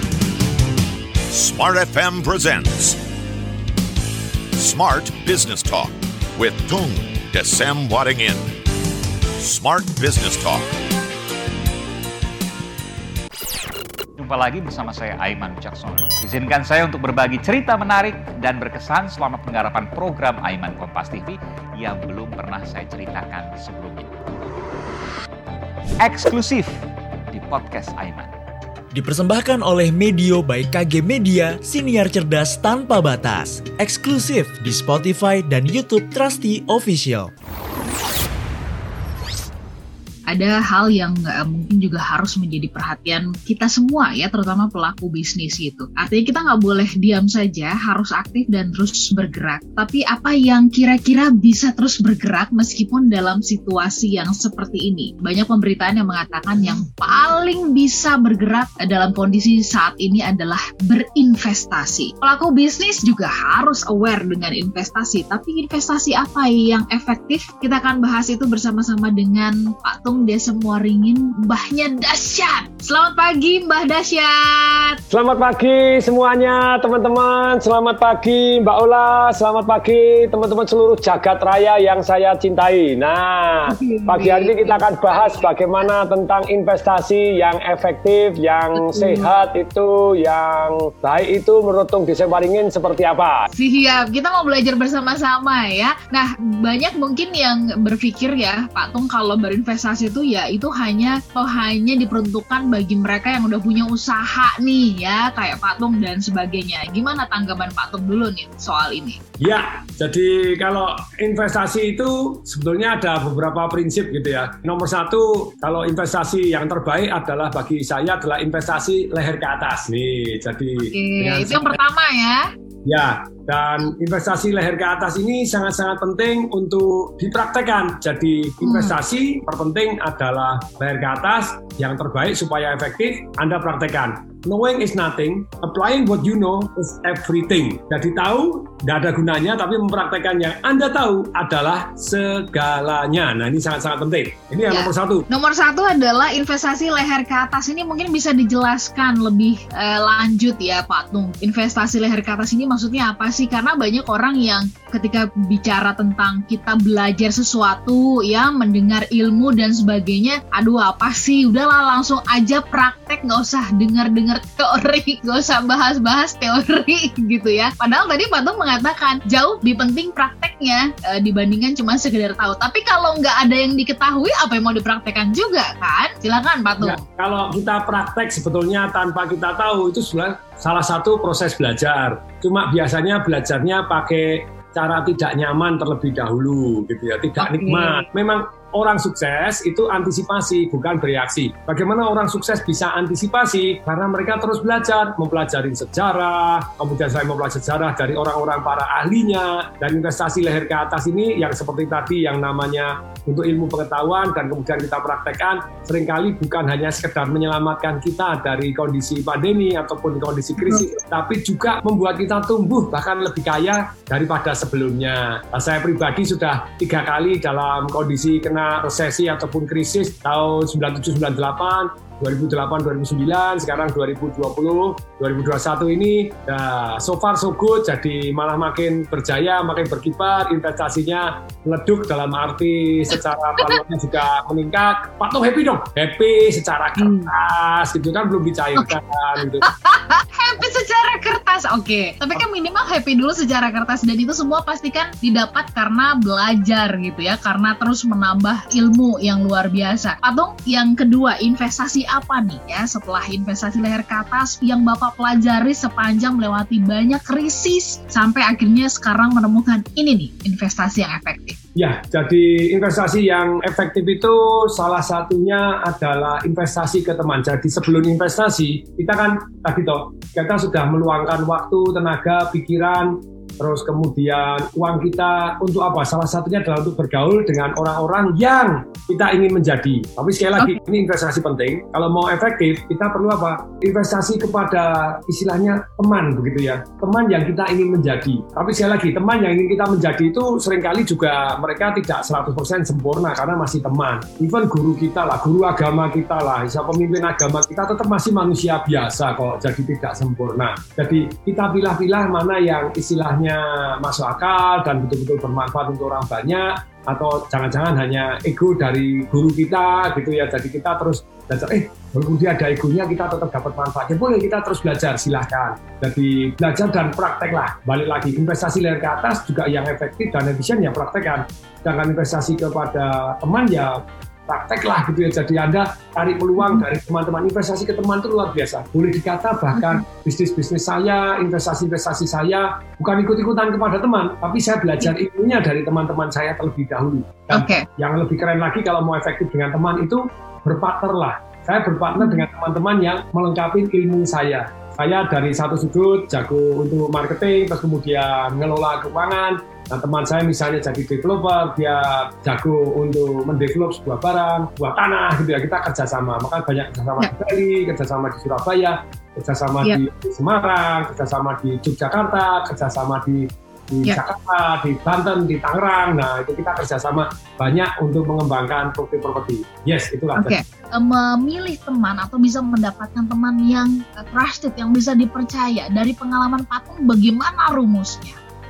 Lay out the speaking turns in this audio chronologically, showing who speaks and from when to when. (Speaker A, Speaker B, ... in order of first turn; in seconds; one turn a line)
Speaker A: 1.3-3.0
Speaker A: 4.6-8.6
Speaker A: 9.4-10.7
Speaker B: 14.2-24.1
Speaker B: 26.0-26.7
Speaker B: 27.3-28.3
Speaker C: 28.9-37.3
Speaker D: 40.3-75.0
Speaker E: 75.1-93.5
Speaker D: 83.7-85.5
Speaker D: 88.8-89.3
Speaker D: 93.5-109.2
Speaker E: 109.4-121.8
Speaker D: 120.8-122.4
Speaker E: 122.8-145.3
Speaker D: 128.6-129.0
Speaker D: 144.7-177.0
Speaker E: 176.8-239.7
Speaker D: 187.4-188.1
Speaker D: 237.0-237.3
Speaker D: 239.6-261.6
Speaker E: 261.8-370.6
Speaker D: 326.6-326.9
Speaker D: 329.8-330.0
Speaker D: 337.5-337.9
Speaker D: 342.2-342.4
Speaker D: 370.4-378.4